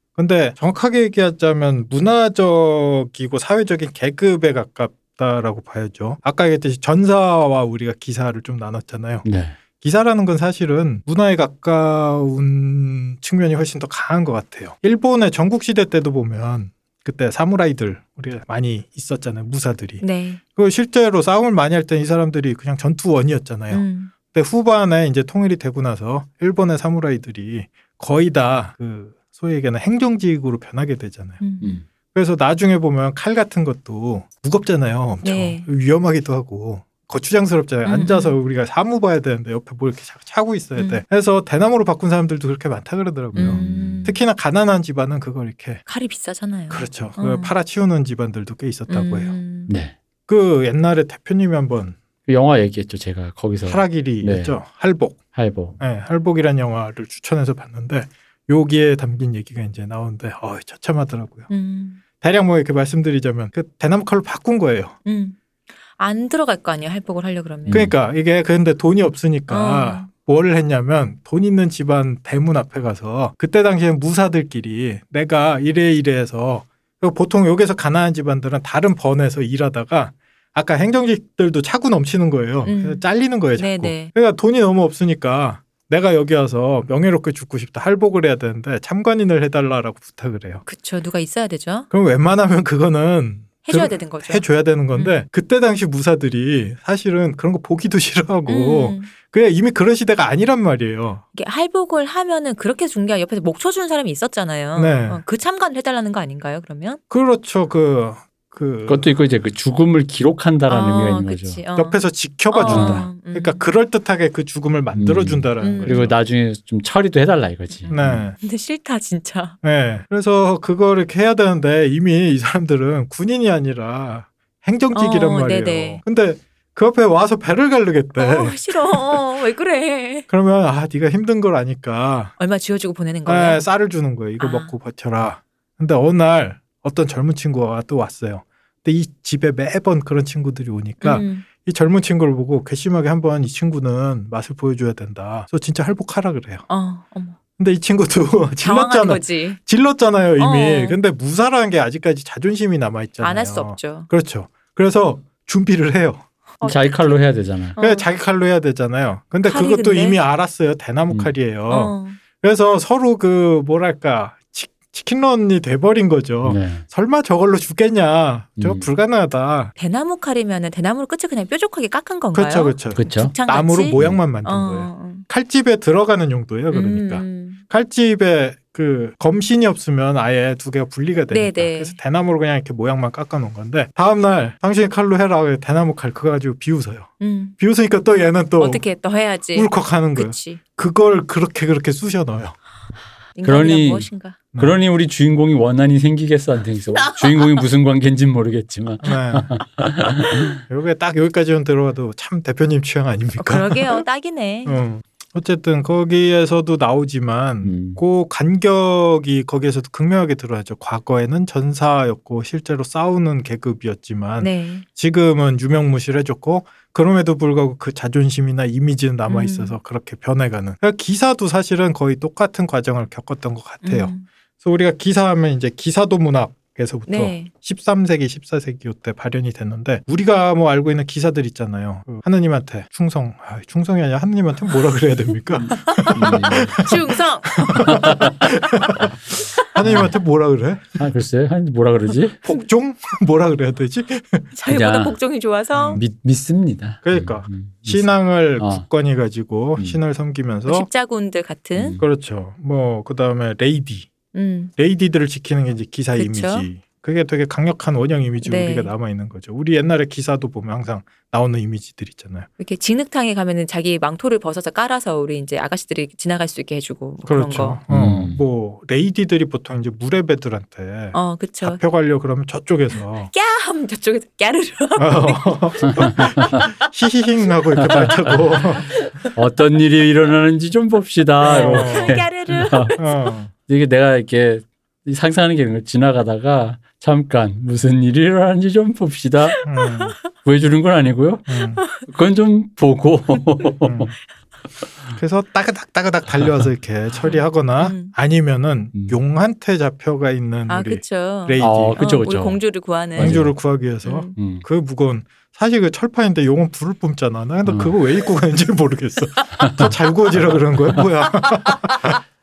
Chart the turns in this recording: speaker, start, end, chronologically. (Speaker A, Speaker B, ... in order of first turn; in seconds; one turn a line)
Speaker A: 0.1-9.3
Speaker B: 9.2-9.6
Speaker A: 9.8-20.0
Speaker C: 20.0-20.4
Speaker A: 20.5-31.4
Speaker C: 23.7-24.1
Speaker C: 31.4-31.8
Speaker A: 32.1-45.8
Speaker C: 35.2-35.7
Speaker C: 37.8-38.3
Speaker C: 40.8-41.0
Speaker B: 43.3-44.1
Speaker C: 43.4-44.2
Speaker C: 45.9-47.5
Speaker A: 46.7-49.3
Speaker C: 48.9-49.7
Speaker B: 49.7-50.0
Speaker A: 50.3-52.0
Speaker B: 52.3-54.5
Speaker A: 53.6-55.2
Speaker B: 55.3-55.8
Speaker A: 55.8-61.5
Speaker C: 61.5-62.0
Speaker A: 62.2-65.0
Speaker C: 65.0-65.4
Speaker C: 66.0-67.9
Speaker B: 67.7-67.9
Speaker A: 67.7-90.6
Speaker C: 69.5-70.1
Speaker C: 82.6-83.0
Speaker C: 83.5-84.1
Speaker C: 90.7-91.9
Speaker A: 91.9-101.2
Speaker C: 93.7-95.2
Speaker C: 98.5-99.1
Speaker C: 101.3-107.0
Speaker A: 104.7-105.2
Speaker A: 107.1-109.1
Speaker B: 108.9-111.6
Speaker C: 110.7-113.6
Speaker A: 111.8-116.1
Speaker B: 112.7-113.0
Speaker B: 114.9-118.2
Speaker C: 115.6-116.1
Speaker C: 117.8-119.6
Speaker A: 117.9-118.4
Speaker A: 119.6-129.2
Speaker C: 124.9-126.0
Speaker C: 128.2-130.3
Speaker A: 130.3-132.3
Speaker C: 132.4-133.6
Speaker A: 133.2-146.6
Speaker C: 134.4-134.7
Speaker C: 141.0-141.4
Speaker C: 146.7-147.4
Speaker A: 147.6-156.2
Speaker C: 148.6-149.6
Speaker C: 150.4-151.0
Speaker C: 153.2-154.1
Speaker C: 156.6-157.2
Speaker B: 156.6-157.8
Speaker C: 157.8-158.1
Speaker A: 157.8-169.7
Speaker C: 159.4-160.2
Speaker C: 161.7-162.2
Speaker B: 166.4-166.8
Speaker B: 168.6-168.8
Speaker C: 169.8-175.3
Speaker A: 172.3-188.8
Speaker B: 172.9-173.3
Speaker C: 176.7-177.6
Speaker C: 181.3-182.0
Speaker C: 187.2-187.6
Speaker C: 188.6-190.6
Speaker A: 189.5-192.6
Speaker C: 193.3-194.4
Speaker B: 193.4-200.6
Speaker C: 197.0-197.6
Speaker A: 199.0-199.5
Speaker A: 200.6-204.0
Speaker C: 203.4-204.8
Speaker A: 204.7-239.1
Speaker B: 207.6-208.0
Speaker C: 214.4-214.8
Speaker C: 219.3-219.7
Speaker C: 223.8-224.2
Speaker C: 227.1-227.5
Speaker C: 235.7-238.3
Speaker B: 236.1-236.8
Speaker B: 237.9-238.3
Speaker A: 239.7-241.0
Speaker B: 239.8-240.1
Speaker B: 241.0-242.4
Speaker A: 242.4-244.5
Speaker C: 244.5-246.0
Speaker B: 244.7-245.2
Speaker A: 245.7-246.0
Speaker B: 245.9-248.8
Speaker A: 247.0-250.9
Speaker C: 250.7-252.0
Speaker B: 251.8-252.0
Speaker A: 252.0-254.1
Speaker C: 254.3-254.7
Speaker A: 254.8-262.5
Speaker C: 256.1-256.7
Speaker C: 258.4-258.9
Speaker C: 262.6-267.8
Speaker A: 267.2-273.3
Speaker B: 267.9-268.4
Speaker C: 271.1-271.8
Speaker C: 273.3-276.9
Speaker A: 275.0-278.9
Speaker B: 276.0-276.6
Speaker B: 277.8-278.4
Speaker C: 277.8-278.4
Speaker C: 278.9-279.3
Speaker B: 279.3-282.9
Speaker C: 281.4-283.2
Speaker A: 281.4-282.2
Speaker A: 282.9-283.5
Speaker B: 283.7-289.6
Speaker C: 289.5-290.1
Speaker A: 289.6-290.1
Speaker B: 290.4-294.1
Speaker A: 291.5-291.8
Speaker A: 293.8-294.1
Speaker A: 295.1-302.0
Speaker B: 296.4-296.7
Speaker C: 297.2-298.1
Speaker C: 300.7-303.5
Speaker B: 301.6-302.6
Speaker B: 303.1-303.6
Speaker A: 303.1-312.1
Speaker C: 304.0-304.3
Speaker B: 304.4-304.6
Speaker B: 307.6-307.9
Speaker B: 309.6-311.1